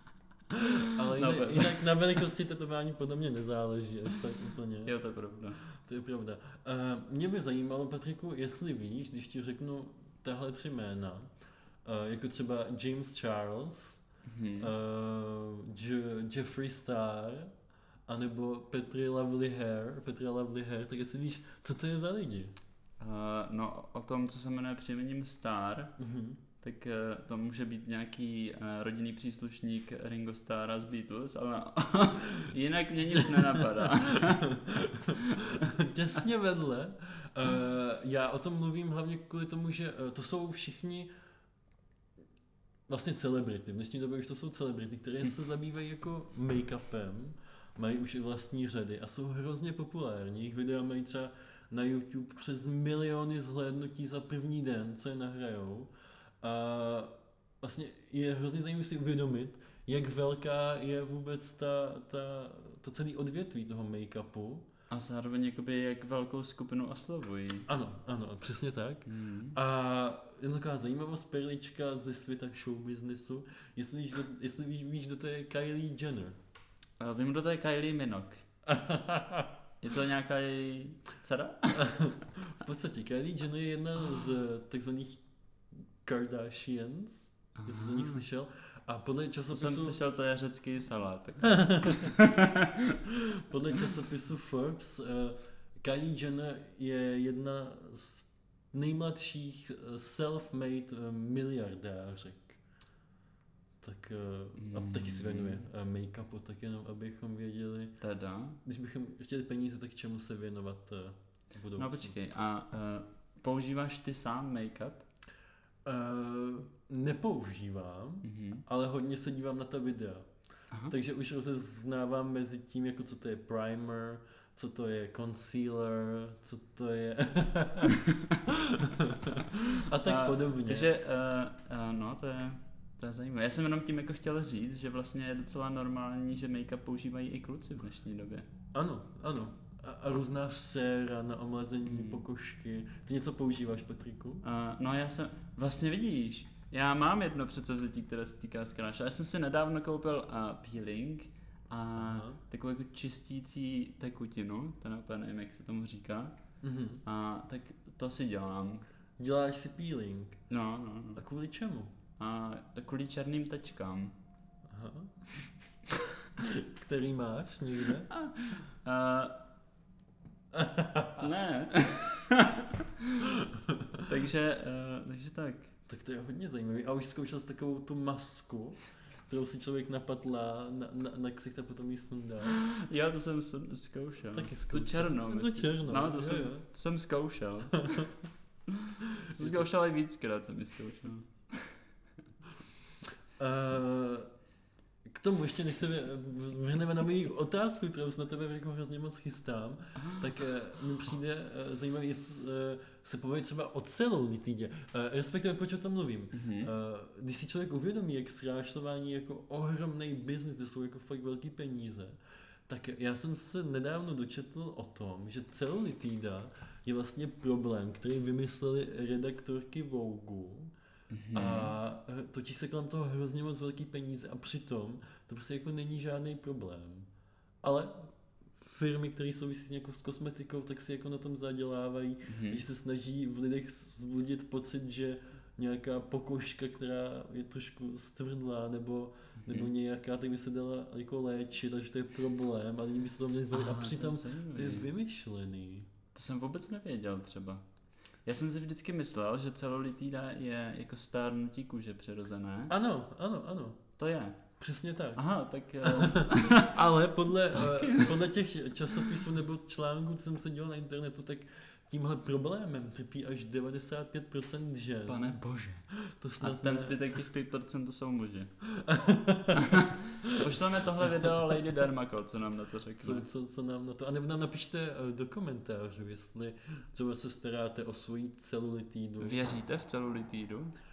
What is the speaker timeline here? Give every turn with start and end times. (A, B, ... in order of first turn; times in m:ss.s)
0:00.5-0:05.0 A
0:00.7-0:01.9 B
0:04.9-0:05.6 B
0:05.6-0:11.3 A
0:11.8-0:14.0 A
0:14.2-0:14.7 B
0:14.6-0:17.5 A
0:18.1-0:22.5 A
0:23.0-0:26.0 B
0:26.0-0:26.4 A
0:26.6-0:34.6 B
0:33.1-0:41.1 A
0:35.1-0:35.6 B
0:42.9-0:55.9 A
0:56.4-1:04.7 A
1:04.9-1:07.7 B
1:07.7-1:16.4 A
1:09.1-1:09.6 B
1:17.0-1:18.4 B
1:18.7-1:19.5 A
1:19.8-1:21.9 B
1:21.7-1:25.2 A
1:26.0-1:30.0 A
1:27.6-1:28.2 B
1:29.5-1:33.0 B
1:31.4-1:32.1 A
1:33.3-1:42.6 A
1:43.8-1:48.0 A
1:44.6-1:45.7 B
1:48.0-1:48.6 B
1:48.6-1:52.2 A
1:51.8-1:55.0 B
1:55.9-2:00.3 A
1:58.2-1:58.6 B
2:00.9-2:10.9 A
2:08.0-2:08.4 B
2:09.6-2:18.5 B
2:18.7-2:24.4 A
2:21.9-2:22.2 B
2:24.4-2:36.3 B
2:32.0-2:32.4 A
2:36.6-2:37.0 A
2:37.0-2:38.9 B
2:39.2-2:40.4 A
2:40.5-2:41.2 B
2:41.2-2:41.9 A
2:42.2-2:44.2 B
2:44.7-2:45.6 A
2:46.4-2:48.1 A
2:48.1-2:49.3 B
2:50.5-2:51.3 A
2:51.2-2:53.3 B
2:53.3-2:54.0 A
2:54.1-2:55.7 B
2:55.9-3:02.6 A
3:02.5-3:08.1 B
3:04.3-3:06.7 A
3:07.8-3:08.1 A
3:08.7-3:11.8 B
3:09.3-3:09.7 A
3:13.4-3:14.3 A
3:15.1-3:40.7 A
3:26.3-3:26.7 B
3:41.1-3:41.8 B
3:41.3-3:47.1 A
3:47.6-4:05.9 A
3:52.3-3:52.6 B
3:59.4-3:59.7 B
4:03.5-4:04.9 B
4:06.1-4:07.6 B
4:08.3-4:12.7 B
4:12.7-4:13.8 A
4:14.0-4:14.4 B
4:14.6-4:15.2 A
4:15.2-4:16.8 B
4:15.8-4:27.1 A
4:17.5-4:18.2 B
4:18.9-4:19.2 B
4:25.1-4:25.8 B
4:26.4-4:28.5 B
4:28.7-4:31.4 A
4:29.5-4:33.3 B
4:33.0-4:39.4 A
4:39.2-4:40.7 B